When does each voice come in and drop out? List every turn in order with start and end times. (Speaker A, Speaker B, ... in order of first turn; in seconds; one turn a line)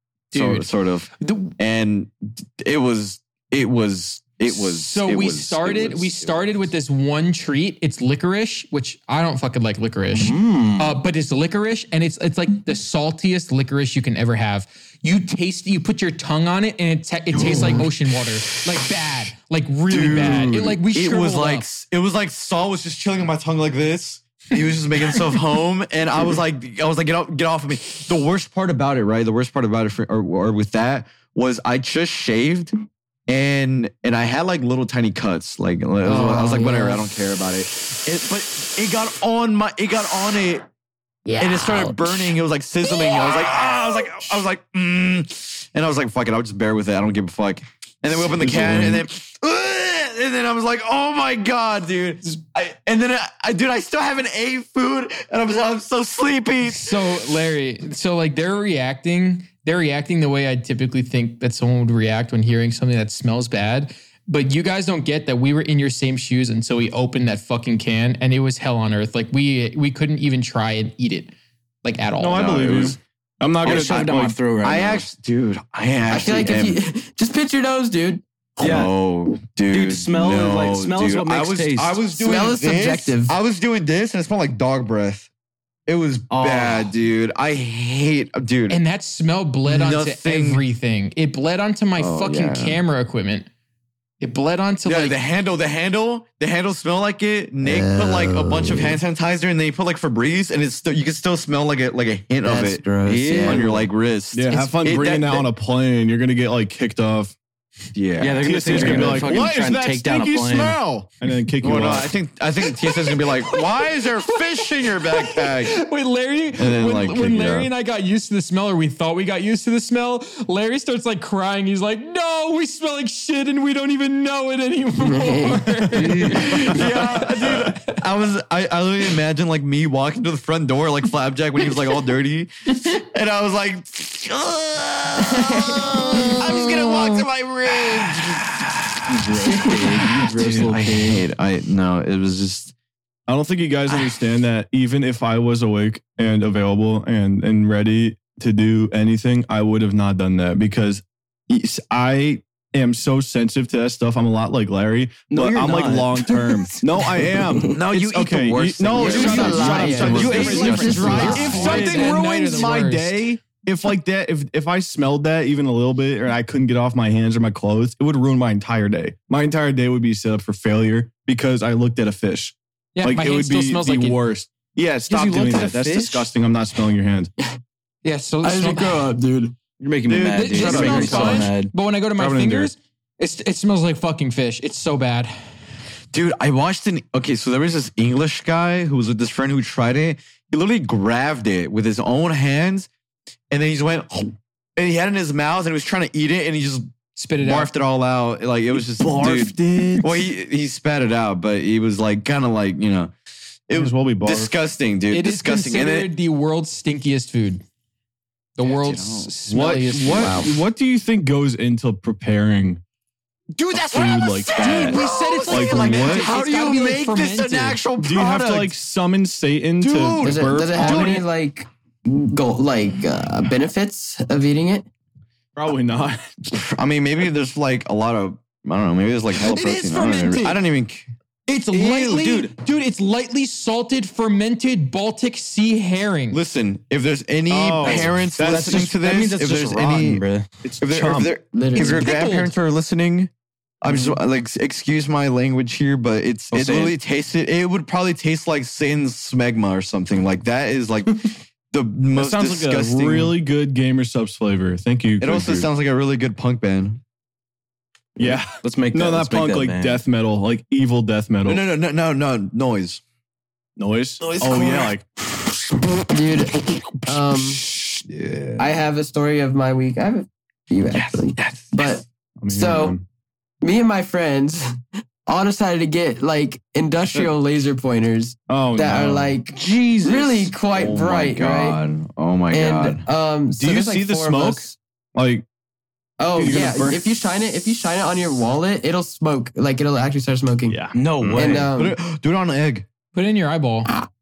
Speaker A: 0.3-0.7
Speaker B: 0.3-6.7
Speaker A: 1.2-1.6
Speaker A: 4.5-21.7
Speaker C: 10.1-11.0
Speaker B: 17.3-17.9
Speaker D: 17.4-17.8
Speaker B: 19.9-32.7
Speaker B: 33.3-40.6
Speaker D: 36.0-37.0
Speaker B: 41.4-57.0
Speaker E: 48.1-49.0
Speaker A: 56.7-71.3
Speaker A: 71.8-72.5
Speaker E: 72.2-74.4
Speaker B: 72.3-73.0
Speaker C: 73.6-75.1
Speaker B: 73.6-76.8
Speaker D: 76.1-78.2
Speaker B: 78.6-85.3
Speaker C: 78.6-78.9
Speaker C: 79.7-82.1
Speaker D: 82.2-83.3
Speaker B: 85.9-88.8
Speaker C: 86.3-86.9
Speaker A: 88.7-93.5
Speaker B: 89.7-90.6
Speaker B: 92.0-92.8
Speaker A: 94.2-95.2
Speaker B: 94.8-105.5
Speaker D: 97.6-99.0
Speaker D: 102.4-103.7
Speaker C: 103.0-103.9
Speaker E: 104.3-107.4
Speaker B: 108.0-109.5
Speaker C: 108.2-110.8
Speaker E: 108.4-112.1
Speaker B: 111.6-115.8
Speaker A: 112.6-127.9
Speaker B: 116.6-117.7
Speaker D: 125.0-125.9
Speaker C: 126.0-126.4
Speaker B: 126.2-138.8
Speaker D: 135.3-136.3
Speaker C: 139.1-141.2
Speaker D: 139.5-139.8
Speaker B: 139.6-142.7
Speaker E: 140.4-140.8
Speaker E: 143.3-177.3
Speaker C: 155.3-157.1
Speaker B: 157.7-161.9
Speaker D: 159.0-161.4
Speaker C: 159.1-162.2
Speaker A: 160.2-163.2
Speaker A: 172.9-174.2
Speaker C: 175.1-176.3
Speaker A: 178.0-179.1
Speaker D: 178.4-179.6
Speaker C: 179.8-181.7
Speaker E: 180.1-181.5
Speaker A: 180.3-185.3
Speaker B: 181.0-181.4
Speaker E: 182.2-182.7
Speaker B: 186.1-192.9
Speaker B: 193.5-203.1
Speaker A: 197.2-197.7
Speaker E: 198.8-200.3
Speaker B: 203.7-206.1
Speaker E: 203.7-204.5
Speaker A: 205.1-207.6
Speaker A: 208.6-210.4
Speaker B: 208.7-209.3
Speaker E: 209.5-212.8
Speaker D: 210.2-210.5
Speaker B: 213.6-218.7
Speaker E: 213.9-216.3
Speaker A: 214.5-217.8
Speaker E: 218.0-221.2
Speaker B: 219.8-221.2
Speaker D: 220.2-224.9
Speaker E: 225.6-226.2
Speaker B: 226.5-231.1
Speaker C: 229.5-230.4
Speaker A: 229.6-230.5
Speaker A: 231.5-236.4
Speaker C: 231.7-232.6
Speaker B: 236.3-240.3
Speaker E: 237.5-238.9
Speaker C: 237.8-240.6
Speaker E: 240.6-241.3
Speaker B: 240.8-243.3
Speaker D: 241.5-242.1
Speaker A: 241.8-242.5
Speaker B: 243.8-253.4
Speaker C: 243.9-244.2
Speaker C: 246.5-247.0
Speaker E: 252.1-255.7
Speaker B: 255.2-257.0
Speaker E: 258.2-261.6
Speaker C: 258.5-260.0
Speaker B: 261.5-263.0
Speaker E: 263.8-265.1
Speaker B: 264.2-264.9
Speaker D: 266.1-267.6
Speaker B: 267.6-268.7
Speaker D: 268.6-273.0
Speaker C: 270.9-271.7
Speaker E: 272.4-273.0
Speaker D: 273.6-274.6
Speaker D: 275.3-281.8
Speaker E: 278.5-279.4
Speaker C: 279.5-280.5
Speaker B: 280.7-283.1
Speaker D: 282.5-284.7
Speaker E: 283.6-285.4
Speaker D: 286.2-290.8
Speaker E: 286.4-287.0
Speaker E: 290.7-291.4
Speaker C: 290.9-291.7
Speaker D: 291.3-292.0
Speaker B: 291.4-292.9
Speaker A: 293.1-293.9